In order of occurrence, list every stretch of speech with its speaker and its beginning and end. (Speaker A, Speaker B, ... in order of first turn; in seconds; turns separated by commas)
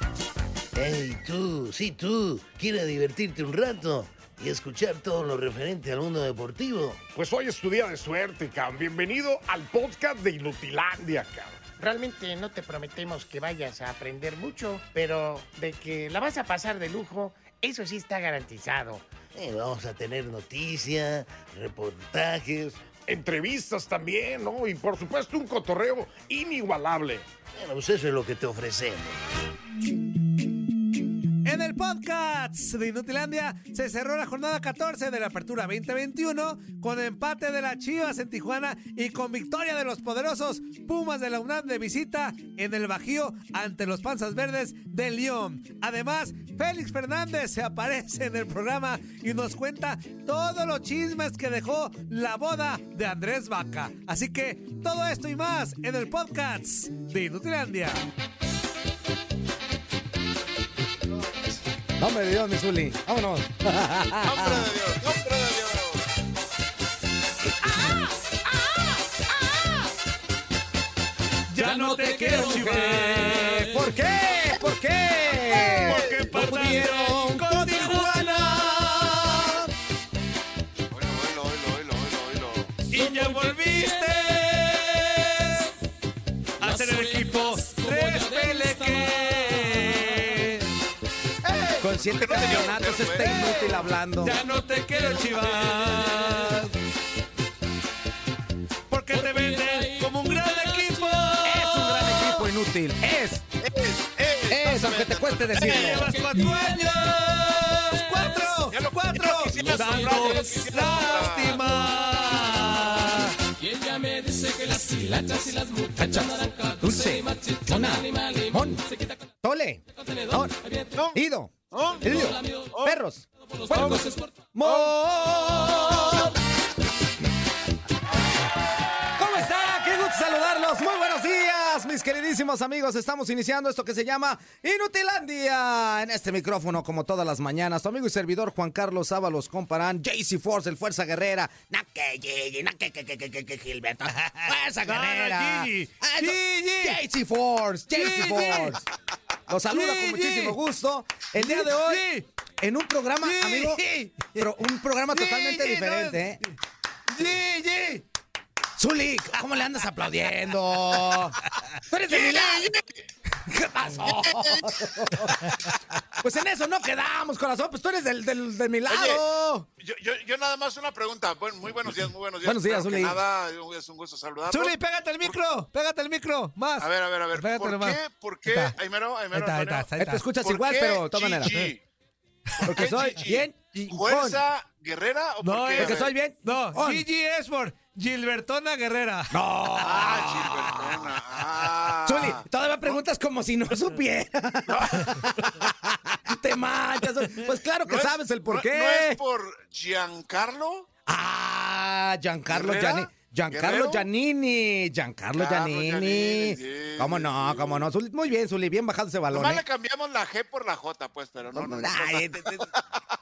Speaker A: 0.8-7.0, Speaker B: 7.1-11.6, Speaker C: 11.8-19.1, Speaker A: 19.3-22.8, Speaker B: 23.1-27.2, Speaker A: 27.6-29.2, Speaker D: 31.4-58.0, Speaker E: 62.0-64.7, Speaker F: 64.2-66.0, Speaker E: 67.5-69.8, Speaker D: 71.5-73.7, Speaker E: 71.6-79.7, Speaker D: 75.5-78.5, Speaker F: 80.9-82.8, Speaker D: 82.9-85.7, Speaker D: 86.6-90.7, Speaker D: 91.4-91.8, Speaker E: 91.8-94.4, Speaker F: 91.8-93.7, Speaker D: 93.2-96.7, Speaker D: 98.9-102.4, Speaker E: 101.4-103.4, Speaker F: 103.6-106.1, Speaker E: 104.5-106.1, Speaker D: 105.6-113.3, Speaker F: 108.7-111.7, Speaker E: 114.5-118.8, Speaker E: 119.4-120.5, Speaker E: 121.1-126.3, Speaker F: 121.7-123.0, Speaker F: 123.7-124.0, Speaker F: 124.6-124.9, Speaker E: 129.2-148.8, Speaker D: 144.2-147.0, Speaker D: 147.9-148.8, Speaker E: 149.5-156.4, Speaker D: 149.6-150.6, Speaker D: 151.3-152.2, Speaker D: 153.2-154.5, Speaker D: 155.1-156.5, Speaker D: 157.1-158.0, Speaker E: 158.8-162.7, Speaker F: 162.1-162.9, Speaker E: 163.4-165.4, Speaker F: 164.0-164.8, Speaker E: 166.2-169.7, Speaker F: 168.9-169.2, Speaker F: 169.8-175.4, Speaker E: 172.4-173.2, Speaker D: 174.5-178.7, Speaker F: 176.8-181.8, Speaker D: 179.3-180.2, Speaker E: 180.0-181.7, Speaker F: 182.6-186.1, Speaker E: 182.6-184.4, Speaker D: 185.4-189.3, Speaker E: 185.7-187.0, Speaker E: 189.3-199.2, Speaker F: 189.8-193.0, Speaker F: 194.7-195.2, Speaker F: 197.8-200.9, Speaker E: 201.1-209.6, Speaker F: 202.5-204.1, Speaker F: 205.3-207.9, Speaker F: 209.3-212.8, Speaker E: 211.5-212.7